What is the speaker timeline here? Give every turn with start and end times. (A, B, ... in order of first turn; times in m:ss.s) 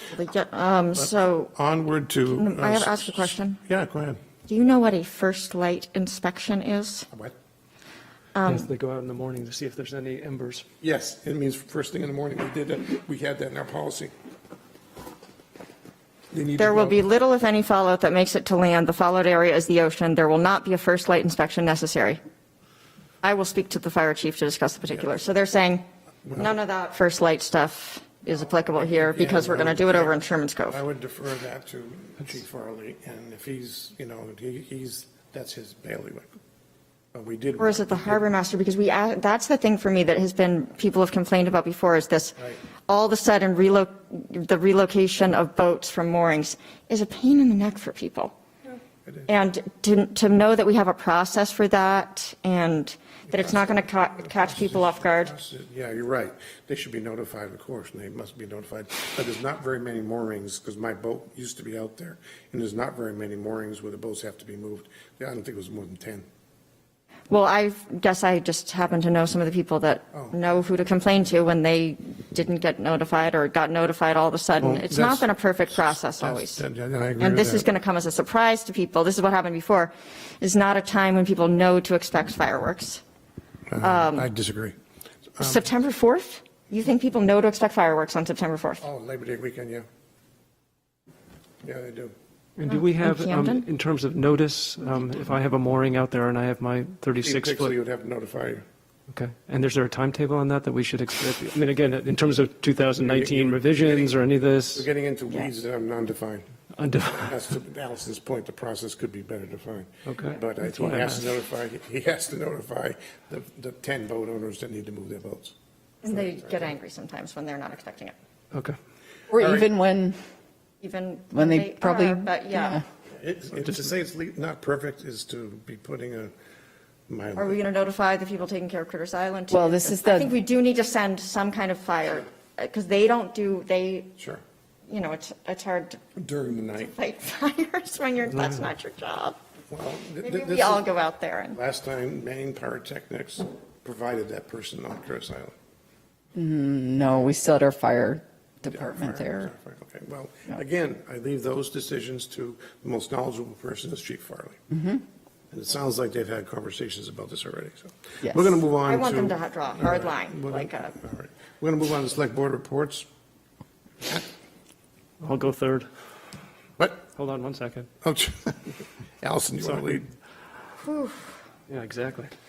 0:00.1-0:01.5 A
0:00.9-0:04.2 B
0:02.4-0:03.6 A
0:04.5-0:07.1 A
0:08.3-0:08.7 A
0:08.4-0:10.6 C
0:10.8-0:14.1 B
0:16.3-0:17.0 B
0:16.6-0:22.2 A
0:23.2-0:25.8 A
0:26.2-0:26.5 B
0:26.4-0:30.8 A
0:28.3-0:36.3 B
0:37.1-0:38.2 B
0:37.6-0:48.3 A
0:49.3-0:55.3 A
0:53.3-1:06.2 B
1:07.3-1:16.6 A
1:14.6-1:17.7 B
1:17.2-1:23.0 A
1:23.7-1:24.8 B
1:23.8-1:24.3 A
1:25.4-1:25.6 B
1:25.4-1:28.8 A
1:28.8-1:29.8 B
1:31.6-1:32.1 B
1:32.6-1:37.7 C
1:32.7-1:33.6 A
1:37.2-1:38.6 B
1:39.1-1:44.8 C
1:43.0-1:44.2 B
1:44.7-1:46.5 B
1:46.8-1:47.4 C
1:47.1-1:55.5 B
1:50.0-1:51.3 C
1:56.0-1:58.2 A
1:59.3-2:00.2 D
1:59.3-1:59.7 B
2:00.8-2:02.8 A
2:01.3-2:02.8 D
2:03.1-2:06.3 B
2:07.1-2:07.6 B
2:07.4-2:14.1 A
2:09.5-2:10.3 D
2:14.9-2:16.0 A
2:16.2-2:16.9 B
2:16.8-2:19.4 A
2:19.7-2:20.9 B
2:20.2-2:21.6 A
2:21.5-2:25.5 B
2:26.4-2:29.5 D
2:28.7-2:34.6 B
2:34.7-2:35.0 D
2:35.5-2:43.1 B
2:38.2-2:38.6 D
2:38.8-2:40.9 A
2:45.2-2:45.9 C
2:46.8-2:47.0 B
2:47.1-2:47.9 C
2:48.0-2:48.6 B
2:49.2-2:50.1 B
2:50.8-2:51.3 A
2:51.7-2:52.3 C